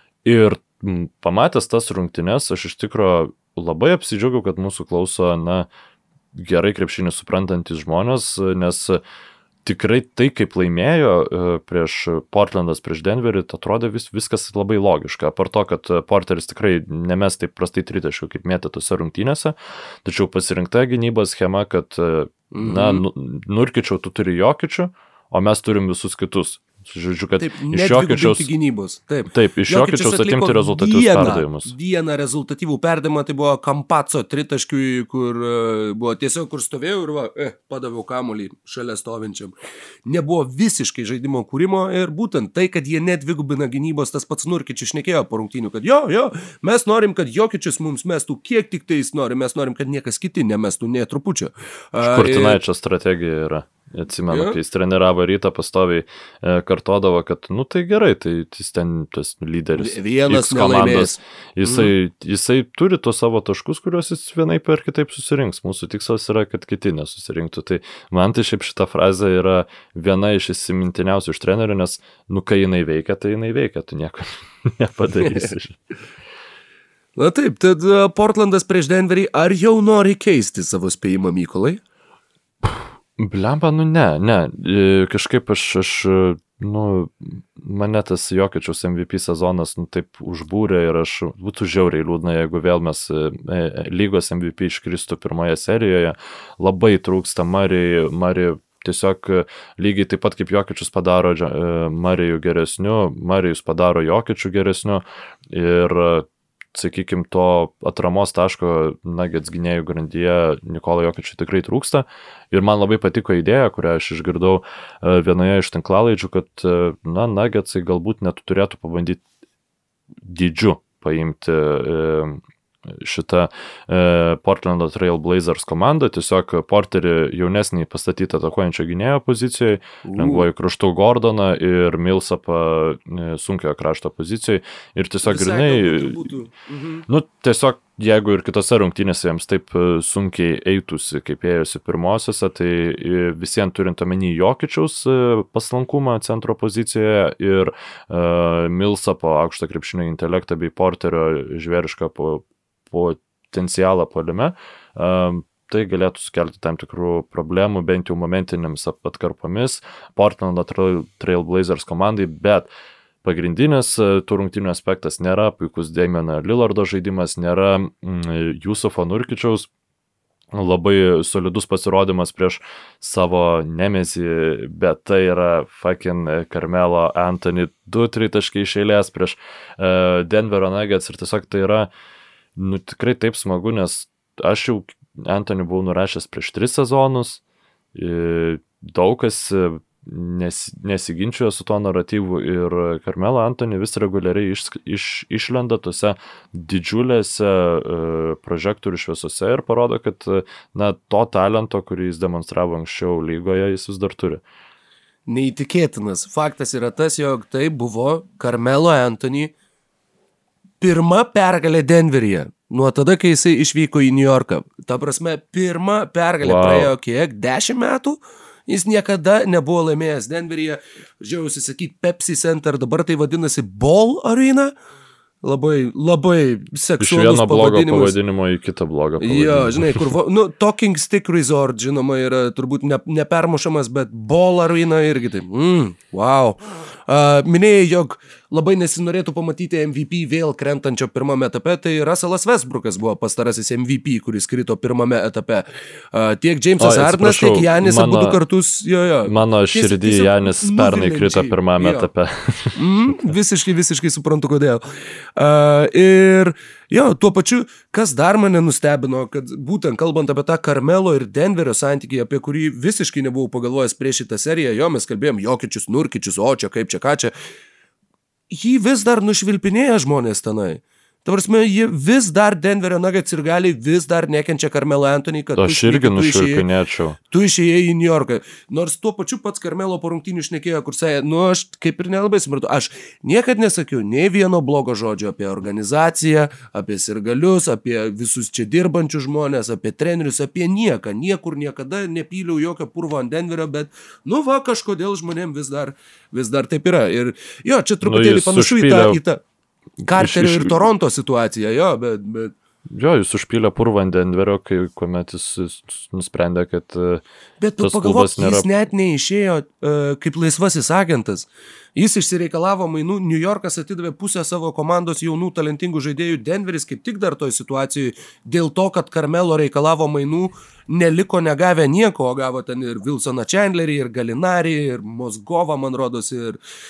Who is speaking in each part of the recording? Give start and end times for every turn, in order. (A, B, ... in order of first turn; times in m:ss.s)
0:00.2-0:05.7 A
0:06.3-0:09.0 A
0:09.6-0:28.5 A
0:22.5-0:23.0 B
0:27.4-0:39.5 B
0:29.3-0:31.7 A
0:40.1-0:52.6 B
0:52.0-1:15.8 A
0:54.3-0:54.6 B
0:59.8-1:01.9 B
1:15.2-1:15.6 B
1:17.2-1:21.8 B
1:22.6-1:59.2 A
2:00.2-2:16.2 A
2:10.0-2:10.5 B
2:15.2-2:17.1 B
2:17.1-2:42.7 A
2:43.2-2:49.7 A
2:50.5-3:01.9 A
3:02.6-3:07.4 A
3:07.9-3:24.4 A
3:25.3-3:29.5 B
3:30.8-3:44.7 B
3:36.4-3:36.9 A
3:45.4-3:48.2 B
3:47.0-3:50.1 A
3:49.2-4:12.1 B
4:06.8-4:08.4 A
4:09.2-4:12.8 A
4:12.8-4:14.8 B
4:15.4-4:27.3 B
4:28.5-4:36.7 B
4:35.6-4:37.2 A
4:37.3-4:59.4 B
4:58.0-4:59.2 A
5:00.0-5:02.5 B
5:00.1-5:00.8 A
5:02.9-5:07.2 A
5:07.6-5:26.6 B
5:07.8-5:08.7 A